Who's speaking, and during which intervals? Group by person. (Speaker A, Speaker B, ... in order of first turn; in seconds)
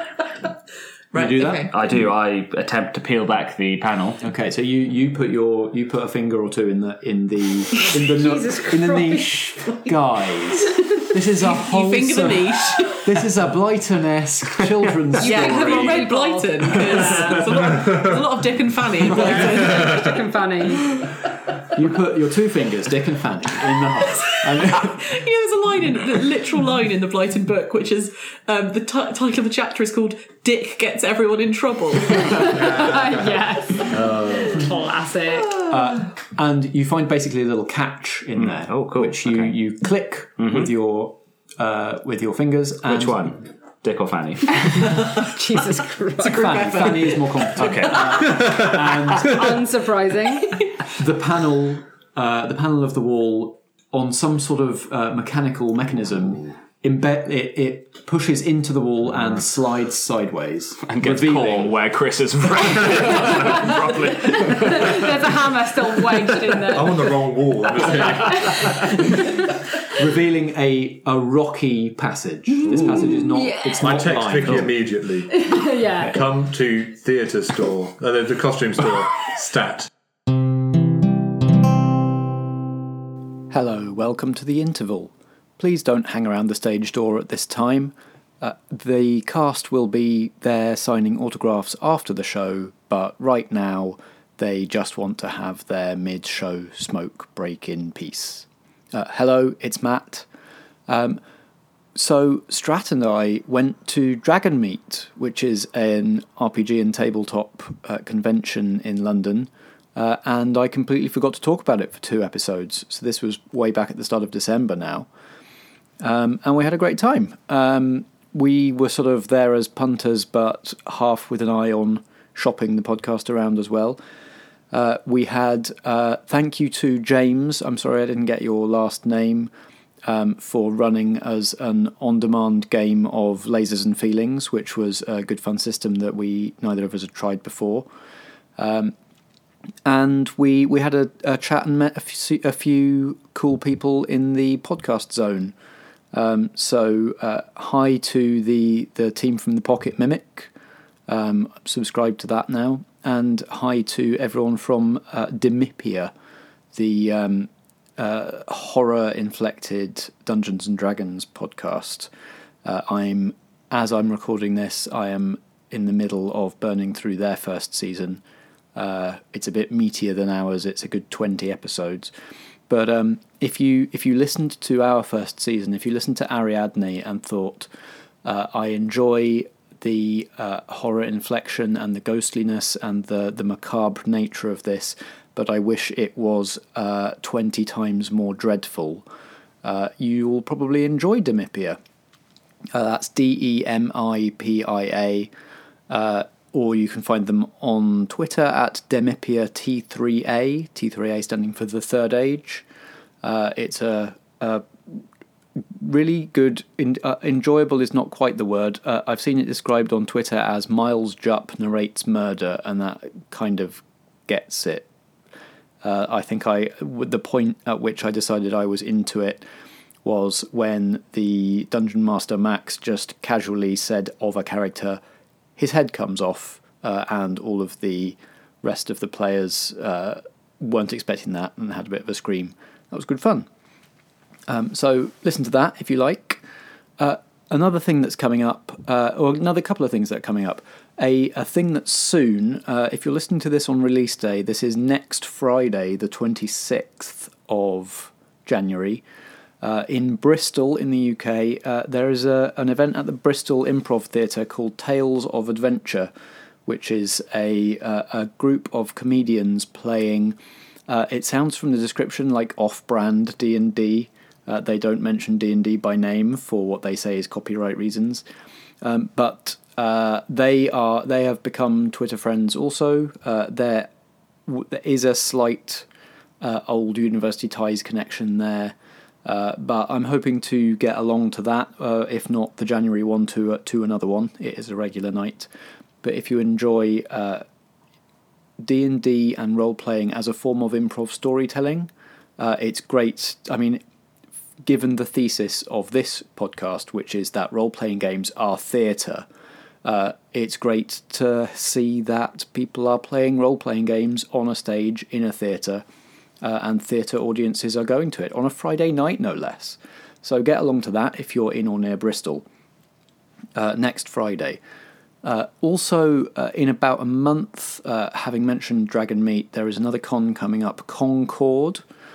Speaker A: 1.1-1.7, 11.0-13.1, 15.2-20.0, 24.0-32.8, 46.2-48.2
Speaker B: 1.1-1.7, 4.2-16.1, 21.7-25.2, 35.6-43.4, 46.2-49.6, 50.9-61.8, 69.9-74.8, 83.5-100.3, 100.9-101.2, 102.0-115.1, 116.0-124.0, 124.7-129.5, 130.1-137.9, 138.6-138.9, 139.8-145.5, 146.1-150.5, 151.1-156.1, 156.7-162.1, 162.6-168.2, 168.8-172.1, 172.7-177.7, 178.2-189.1, 189.6-191.8, 192.7-195.3, 195.9-202.7, 203.2-205.0, 205.7-214.9, 215.8-219.4, 220.0-225.0, 225.6-233.5, 234.5-236.4, 237.0-249.0, 249.6-256.1, 256.7-268.2, 268.8-273.9, 274.5-275.9, 276.4-285.5, 286.0-287.4, 288.6-293.8, 294.6-299.3, 299.8-305.9, 306.4-312.5, 313.6-314.6, 315.2-321.8
Speaker C: 1.6-4.2, 38.4-39.6, 40.4-40.7, 42.9-44.9, 47.6-48.6, 60.9-65.1
Speaker D: 7.9-9.4, 15.2-17.6, 19.1-21.0, 32.2-35.7, 45.1-46.8, 49.1-50.6, 64.4-69.2, 73.2-73.9, 75.3-76.2
Speaker E: 66.6-69.0, 73.8-79.9